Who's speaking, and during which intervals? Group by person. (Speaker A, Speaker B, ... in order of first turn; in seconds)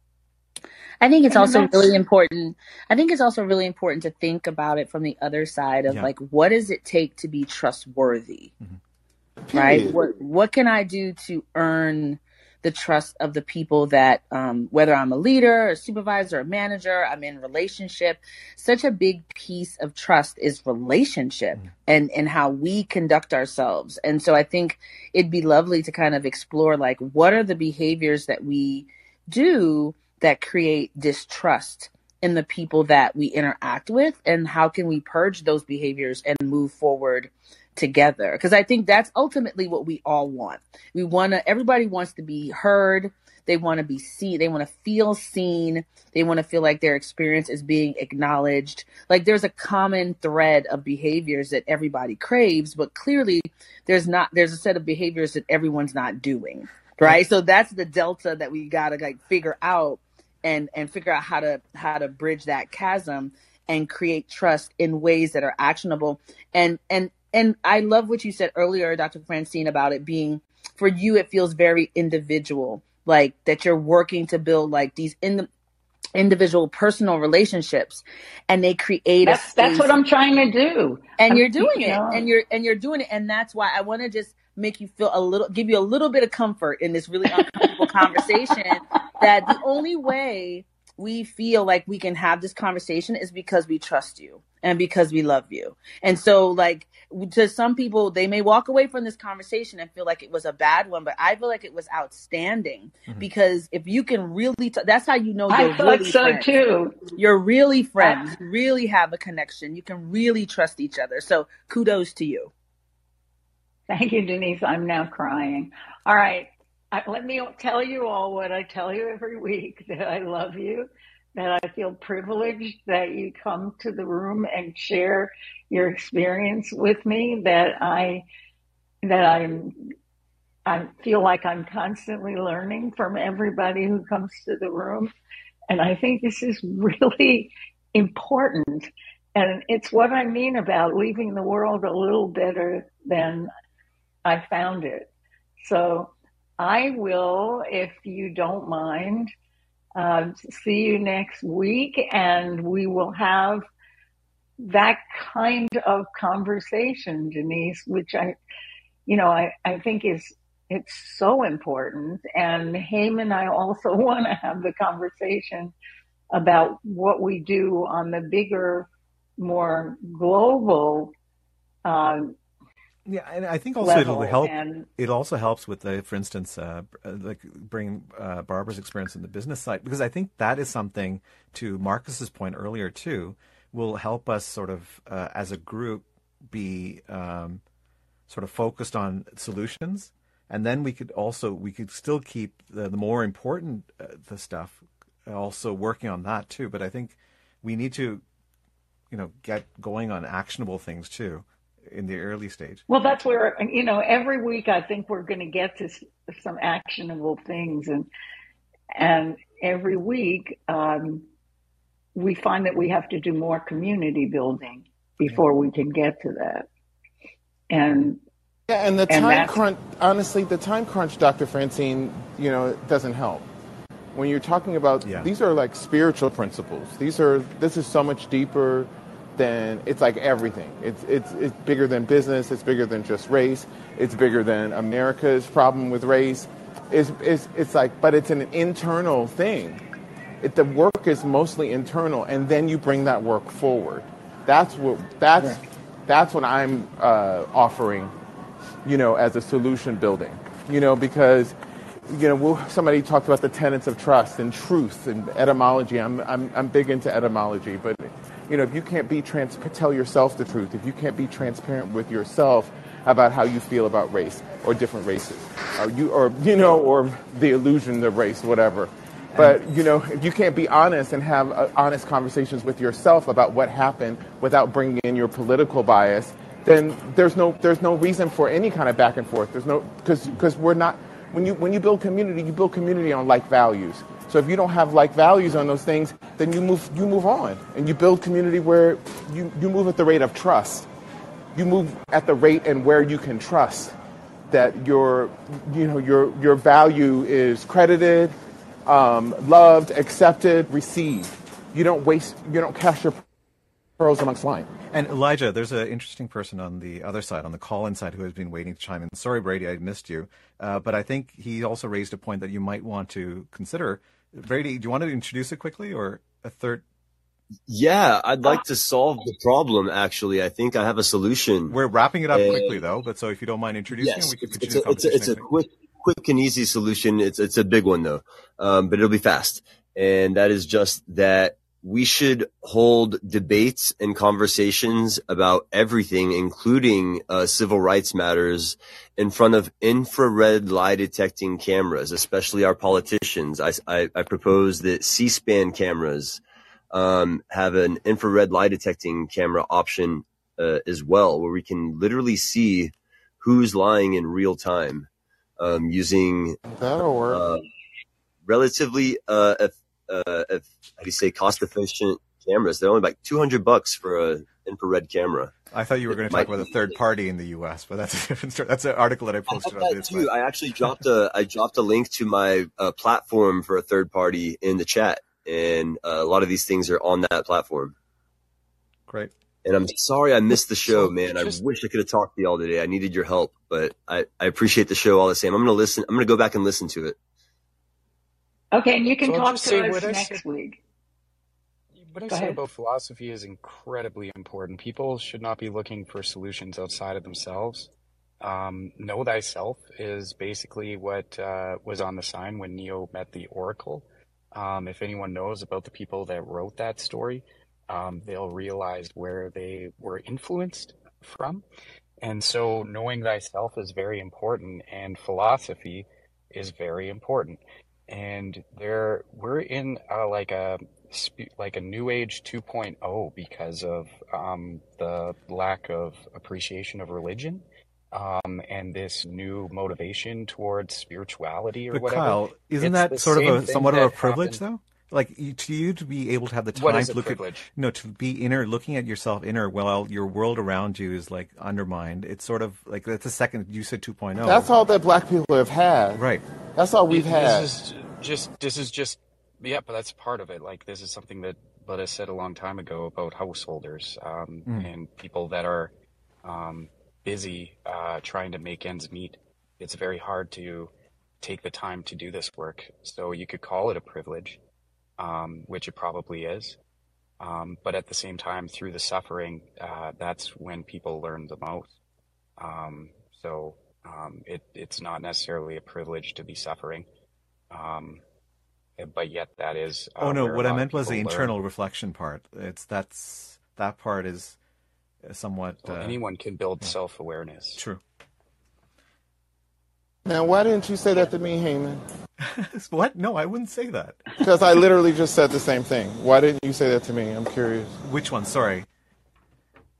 Speaker A: 1.0-8.5, 9.5-75.5, 76.2-79.9, 81.2-112.5
Speaker B: 1.3-2.0, 79.2-82.3, 87.3-88.8, 105.5-107.1, 108.0-108.3, 113.9-128.2, 129.0-129.7, 130.7-135.1, 135.7-143.5, 144.2-145.1, 145.6-149.3, 149.9-153.6, 154.6-158.3, 159.1-165.7, 166.3-171.1, 171.8-172.3, 173.8-174.9, 202.9-208.1, 208.9-211.2, 212.1-216.6, 217.7-218.2, 219.1-219.6, 388.7-390.8, 392.3-392.6
Speaker C: 173.1-187.6, 188.3-198.2, 199.1-202.8, 225.0-225.3, 304.9-316.8, 321.7-325.5, 365.7-370.3, 379.1-379.3, 431.9-444.7, 446.1-446.4, 480.2-484.6, 485.2-486.2, 492.4-494.2, 498.0-498.9
Speaker D: 218.7-223.4, 224.1-239.8, 240.4-248.1, 248.8-251.5, 252.1-290.9, 291.5-293.9, 294.5-303.2, 304.0-304.7, 356.8-357.4, 444.4-446.2, 446.7-447.7, 490.2-492.0, 494.4-498.0
Speaker E: 317.7-321.8, 322.3-322.8, 324.0-355.1, 355.6-356.6, 357.3-357.6, 358.4-365.5, 366.1-366.7, 369.5-377.9, 379.6-387.1
Speaker F: 380.5-381.6, 389.2-390.4, 391.9-411.6, 412.2-434.6, 436.7-437.7, 447.1-455.9, 456.4-464.6, 465.2-466.8, 467.4-471.9, 472.6-477.1, 477.7-478.2, 479.0-481.6, 485.8-487.8